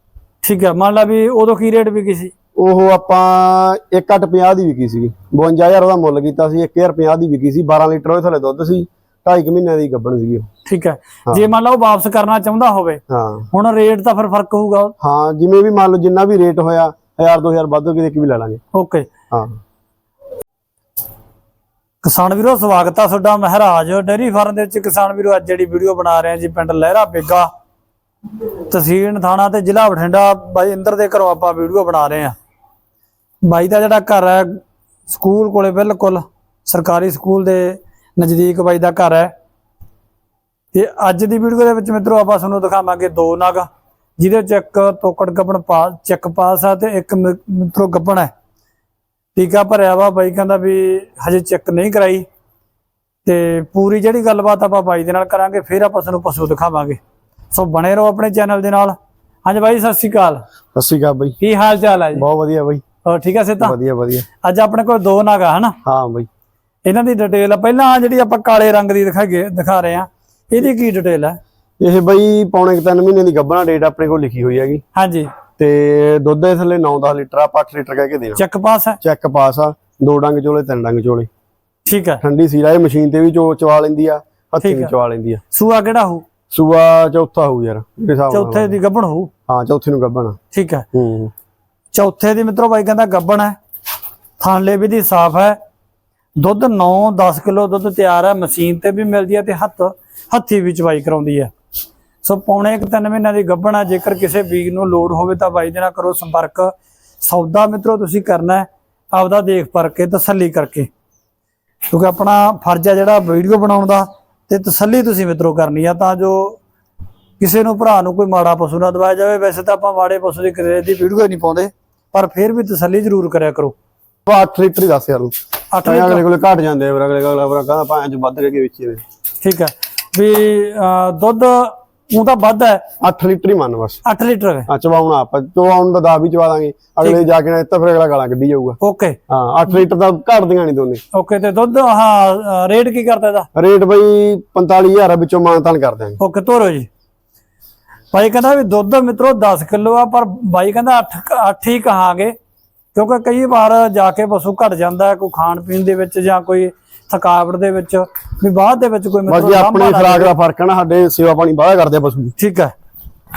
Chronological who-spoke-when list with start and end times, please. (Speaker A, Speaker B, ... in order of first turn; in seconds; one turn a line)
Speaker A: 0.4-2.3
Speaker B: 2.6-10.5
Speaker A: 10.7-14.9
Speaker B: 13.1-13.5
Speaker B: 15.0-18.6
Speaker A: 18.7-19.1
Speaker B: 19.3-19.6
Speaker A: 22.0-27.5
Speaker A: 28.7-32.4
Speaker A: 33.4-39.3
Speaker A: 40.7-48.3
Speaker A: 49.4-52.2
Speaker A: 53.2-57.0
Speaker A: 57.5-60.4
Speaker B: 60.8-61.4
Speaker A: 61.4-62.2
Speaker B: 62.1-62.8
Speaker A: 63.0-63.8
Speaker B: 63.6-64.3
Speaker A: 64.4-65.8
Speaker B: 65.8-66.3
Speaker A: 66.8-71.4
Speaker B: 71.8-74.8
Speaker A: 75.0-75.3
Speaker B: 75.6-78.4
Speaker A: 78.4-79.0
Speaker B: 79.0-81.3
Speaker A: 81.9-82.2
Speaker B: 82.2-85.4
Speaker A: 84.6-84.9
Speaker A: 85.5-86.2
Speaker B: 86.5-88.8
Speaker A: 88.3-89.3
Speaker B: 89.5-90.4
Speaker A: 90.5-90.9
Speaker B: 90.9-91.3
Speaker A: 91.9-93.6
Speaker A: 94.4-95.6
Speaker A: 96.4-101.5
Speaker A: 102.2-110.9
Speaker A: 111.9-116.6
Speaker A: 117.4-123.8
Speaker B: 124.3-129.0
Speaker A: 125.7-126.2
Speaker A: 129.4-132.9
Speaker B: 133.0-134.0
Speaker A: 134.1-134.7
Speaker B: 134.7-138.8
Speaker A: 138.8-139.2
Speaker B: 139.3-141.0
Speaker A: 141.1-143.5
Speaker B: 143.6-146.2
Speaker A: 146.2-146.9
Speaker A: 148.1-152.3
Speaker A: 152.9-160.3
Speaker B: 159.3-162.3
Speaker A: 162.4-162.7